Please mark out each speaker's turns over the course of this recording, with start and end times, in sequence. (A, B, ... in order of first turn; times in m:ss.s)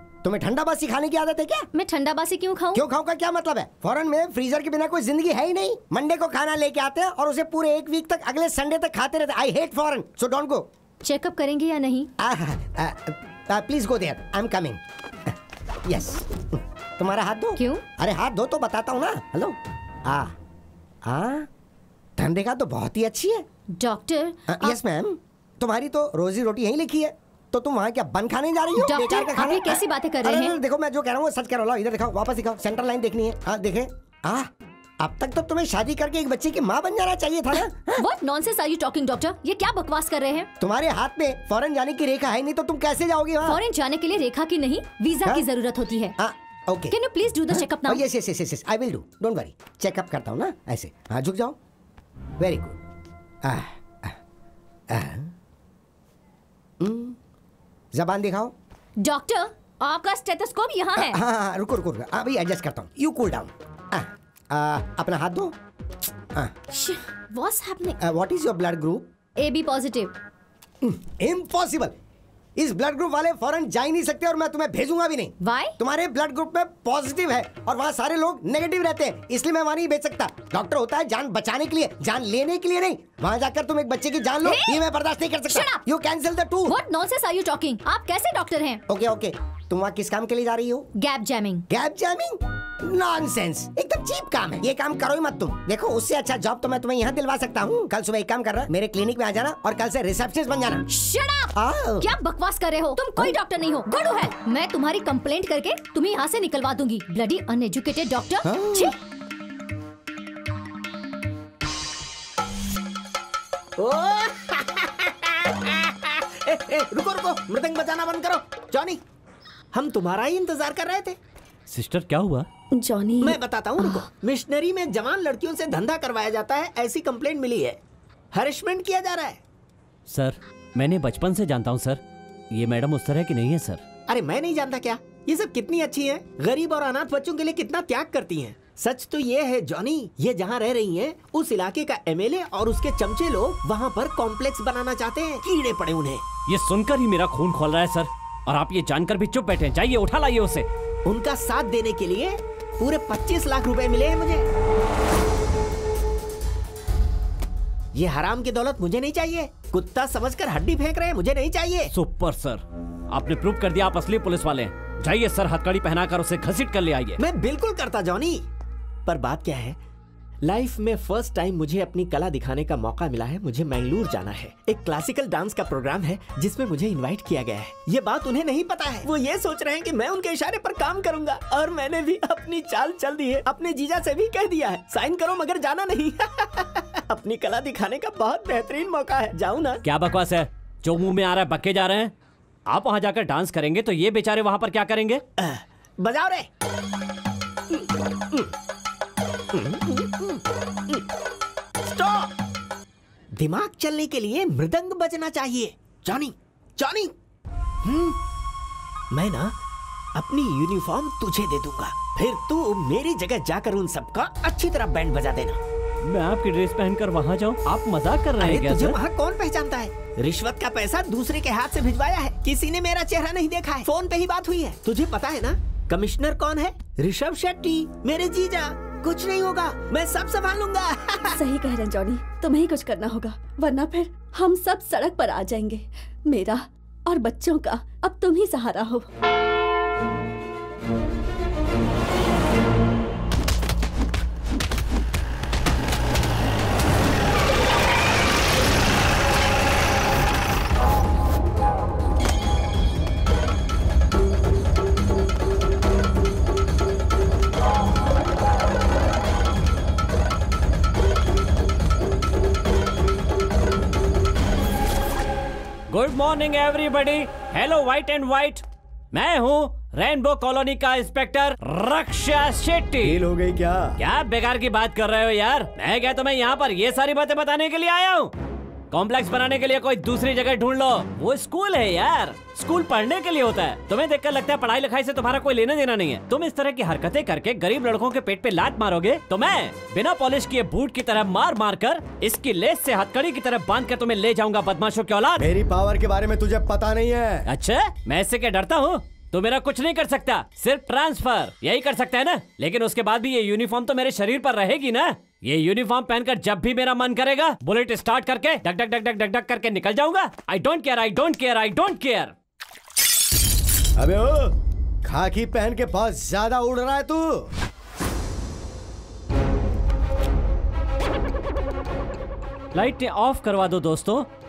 0:00.2-0:01.7 A
0:01.7-0:02.8 B
0:02.7-0:10.7 A
0:11.0-0:12.1 B
0:12.2-0:15.3 A
0:15.8-0:20.3 A
0:17.6-0:17.8 B
0:21.1-0:21.5 A
0:22.2-0:23.4 A
0:23.7-0:24.8 B
0:24.5-0:38.1 A
0:28.8-0:30.6 B
0:37.5-0:40.5 B
0:40.6-0:43.6 A
0:43.4-0:46.2 B
0:46.2-0:47.0 A
0:46.9-0:48.0 B
0:47.5-0:51.6 A
0:52.4-0:52.8 A
0:53.4-0:54.2 A
0:54.9-0:55.3 A
0:56.8-0:57.2 A
0:57.9-0:58.5 A
0:59.0-1:01.2 B
1:01.0-1:05.5 A
1:06.7-1:08.0 B
1:08.0-1:09.1 A
1:09.4-1:10.1 B
1:10.8-1:11.9 A
1:12.6-1:26.8 A
1:15.4-1:15.8 B
1:24.4-1:24.8 B
1:25.5-1:25.8 B
1:26.7-1:28.8 B
1:28.9-1:30.9 A
1:31.0-1:31.6 B
1:31.7-1:40.8 A
1:40.9-1:49.0 B
1:41.6-1:42.1 A
1:53.8-1:59.0 C
1:59.7-2:01.2 C
2:01.7-2:02.5 D
2:02.7-2:04.0 E
2:03.2-2:07.8 C
2:08.3-2:09.4 C
2:10.1-2:12.0 D
2:12.5-2:13.8 D
2:14.1-2:26.2 C
2:26.5-2:30.7 D
2:31.0-2:34.5 C
2:37.9-2:41.9 C
2:41.9-2:47.2 D
2:47.2-2:48.5 C
2:49.1-2:49.8 C
2:50.4-3:09.8 C
3:09.8-3:12.1 D
3:12.7-3:15.2 D
3:15.4-3:16.5 C
3:17.7-3:18.5 C
3:19.5-3:21.0 C
3:21.8-3:22.3 C
3:23.3-3:27.1 C
3:27.8-3:28.2 C
3:29.1-3:29.6 C
3:30.2-3:35.6 C
3:36.0-3:39.0 D
3:38.4-3:51.4 C
3:51.4-3:59.1 E
4:25.9-4:33.2 D
4:33.0-4:34.0 F
4:34.0-4:38.3 D
4:38.9-4:55.5 D
4:55.4-4:57.5 F
4:57.5-5:12.4 D
5:14.0-5:14.5 F
5:15.0-5:17.4 F
5:22.7-5:24.3 D